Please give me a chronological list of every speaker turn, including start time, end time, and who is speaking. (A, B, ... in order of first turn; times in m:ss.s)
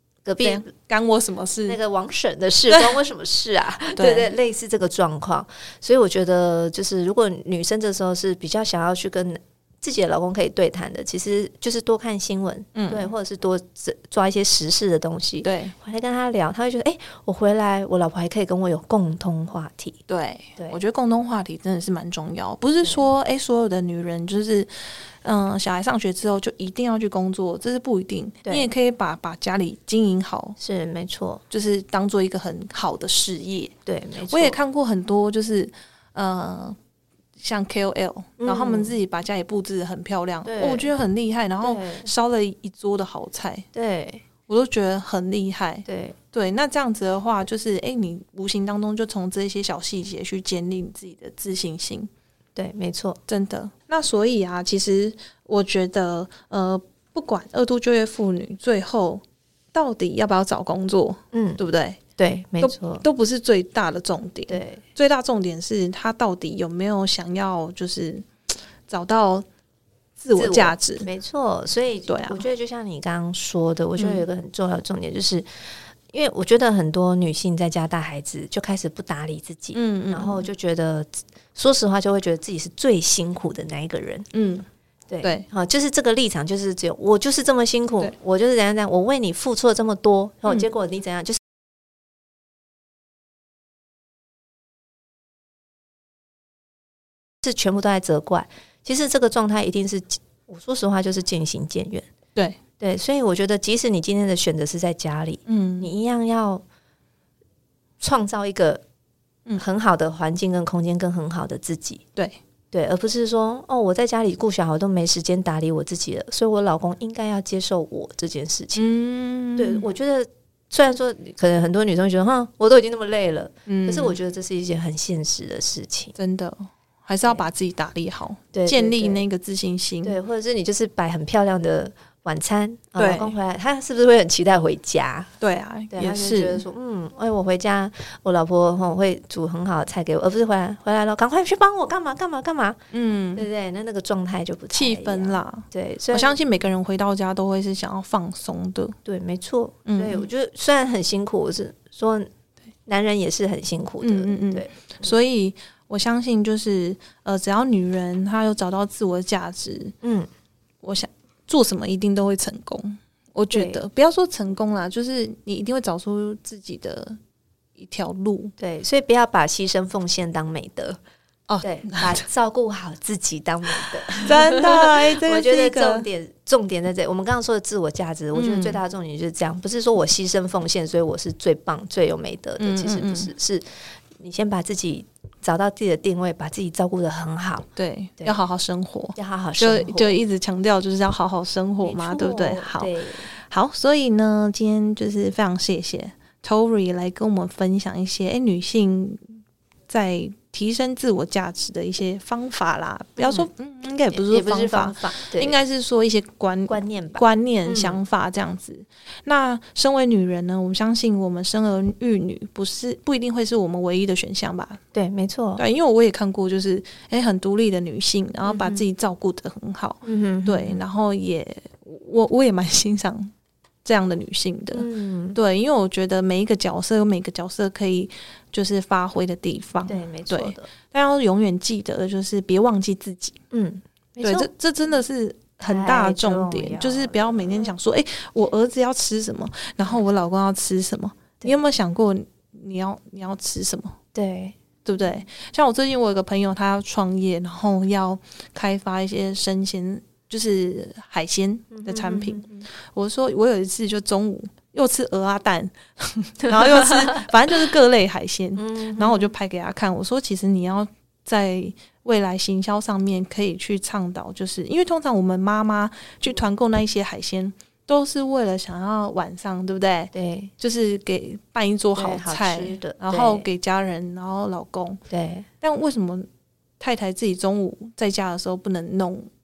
0:00.2-0:00.7 A
0:00.4-0:01.8 B
0:01.6-0:20.0 A
0:04.0-0:04.3 B
0:12.7-0:13.1 B
0:15.4-0:15.7 B
0:20.1-0:30.6 B
0:30.6-0:31.4 A
0:31.5-0:33.7 B
0:33.8-0:34.6 A
0:34.2-0:36.8 B
0:37.4-0:43.7 B
0:38.4-0:38.9 A
0:40.4-0:40.9 A
0:41.6-0:42.1 A
0:43.7-0:44.2 A
0:44.5-0:52.1 B
0:45.8-0:46.2 A
0:52.6-0:53.2 A
0:53.3-0:59.2 B
0:59.7-1:02.0 B
1:01.3-1:01.6 A
1:02.2-1:03.0 A
1:02.6-1:08.3 B
1:04.5-1:04.8 A
1:08.9-1:09.4 B
1:10.2-1:11.1 B
1:10.3-1:15.5 A
1:12.1-1:12.4 B
1:14.0-1:14.2 B
1:16.1-1:24.3 A
1:19.7-1:20.4 B
1:24.3-1:24.6 B
1:25.1-1:31.4 A
1:37.4-1:42.1 A
1:42.8-1:46.6 A
1:45.4-1:45.9 B
1:48.0-1:48.8 A
1:49.6-1:52.0 A
1:52.7-1:58.9 A
1:58.8-1:59.8 B
1:59.6-2:06.1 A
2:03.7-2:04.2 B
2:06.1-2:10.2 B
2:08.5-2:09.2 A
2:10.0-2:15.3 A
2:13.0-2:13.4 B
2:15.4-2:16.6 B
2:15.9-2:22.8 A
2:22.9-2:23.4 B
2:23.3-2:26.4 A
2:24.7-2:29.0 B
2:29.0-2:32.3 A
2:29.8-2:30.2 B
2:32.8-2:35.1 A
2:34.0-2:39.9 B
2:40.0-2:40.3 A
2:40.8-2:47.2 B
2:43.5-2:43.8 A
2:47.8-2:48.5 B
2:48.6-2:51.0 A
2:51.5-2:52.2 B
2:51.6-3:07.6 A
2:54.2-2:56.1 B
2:58.3-2:58.8 B
3:02.6-3:03.3 B
3:07.8-3:19.2 B
3:09.2-3:10.2 A
3:11.8-3:13.3 A
3:19.9-3:34.8 B
3:23.2-3:23.5 A
3:24.1-3:25.5 A
3:26.7-3:28.0 A
3:34.9-3:35.6 A
3:35.6-3:43.3 B
3:38.4-3:38.8 A
3:40.0-3:40.8 A
3:43.8-3:53.4 B
3:44.7-3:45.4 A
3:49.9-3:50.7 A
3:53.5-3:54.5 A
3:54.2-4:04.0 B
3:55.6-3:57.7 A
4:04.1-4:05.2 A
4:04.8-4:35.0 B
4:11.7-4:12.6 A
4:16.4-4:17.3 A
4:18.6-4:19.3 A
4:30.1-4:30.5 A
4:31.9-4:33.4 A
4:35.1-4:35.5 A
4:35.6-4:36.3 B
4:36.8-4:39.3 B